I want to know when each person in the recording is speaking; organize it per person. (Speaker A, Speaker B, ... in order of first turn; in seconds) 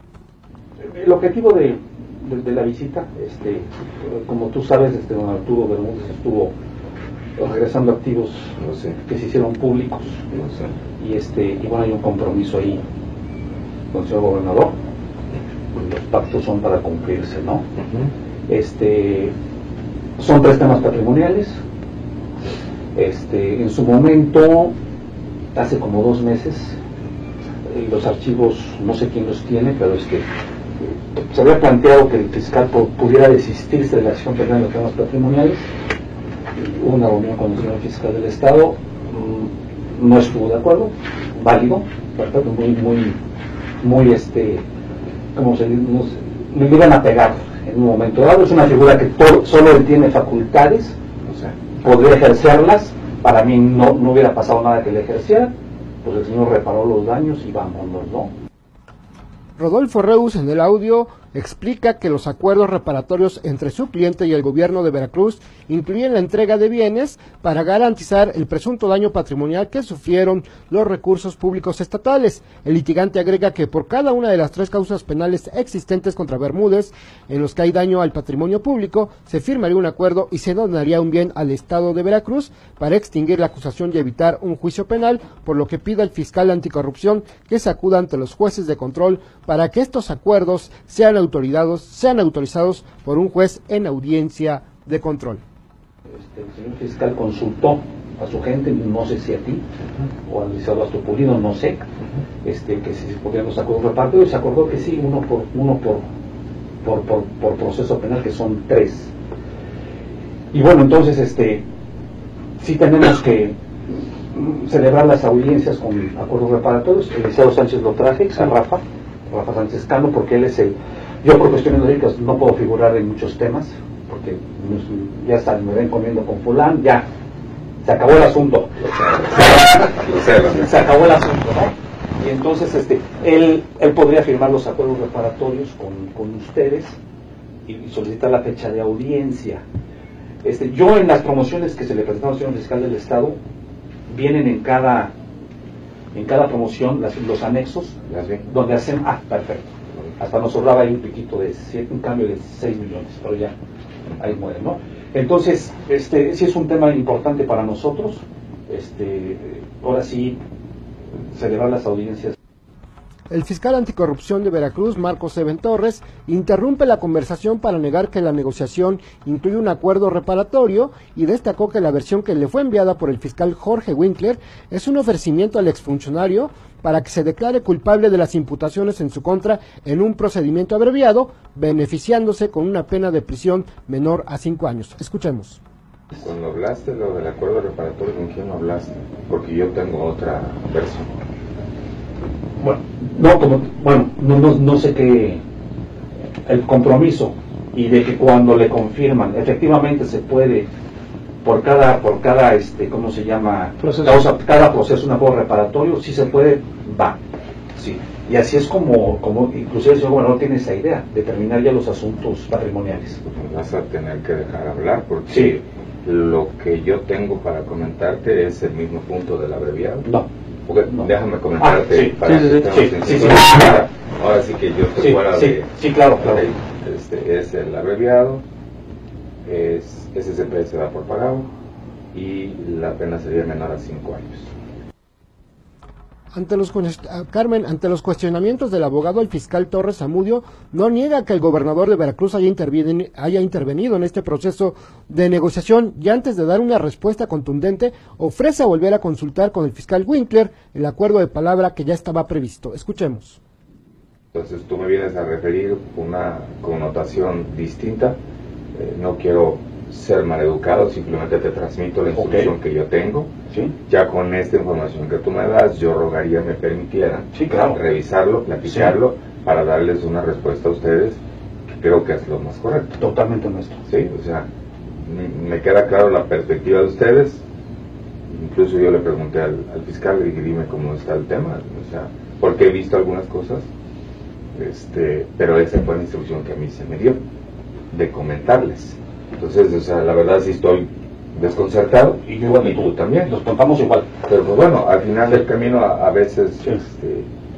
Speaker A: 0.8-6.5, 7.4-10.3, 11.0-12.8, 13.9-14.7, 15.7-17.7, 18.5-19.3, 20.2-21.6, 22.9-24.7, 25.5-26.8, 27.7-30.3, 30.8-35.7, 36.6-43.2, 43.8-44.6, 45.4-51.0, 51.8-58.3, 96.2-99.6, 100.3-101.9, 102.4-106.0, 106.8-109.1, 110.5-111.6, 112.6-113.6, 114.3-127.1, 127.8-128.8, 130.3-137.0, 137.7-139.6, 140.4-143.4, 144.1-145.1, 146.1-153.6, 154.2-160.4, 161.3-162.4, 192.6-195.4, 196.5-200.7, 201.4-207.2, 207.8-213.2, 215.3-215.6, 220.9-223.8, 225.0-226.5, 262.1-262.5, 263.5-263.8, 267.3-267.8, 268.6-269.0, 273.0-273.8, 292.2-294.1
Speaker B: 8.6-9.0, 10.3-10.7, 17.8-18.1, 51.3-51.5, 128.8-130.8, 148.1-148.5, 186.2-191.2, 213.2-220.1, 220.7-228.4, 229.4-231.5, 232.1-234.5, 254.3-258.2, 258.7-263.3, 263.9-273.0, 273.9-274.5, 275.1-277.4, 278.3-283.7, 284.6-287.2, 287.9-293.3, 294.3-297.3
Speaker C: 59.6-95.4, 163.3-185.6, 236.3-253.4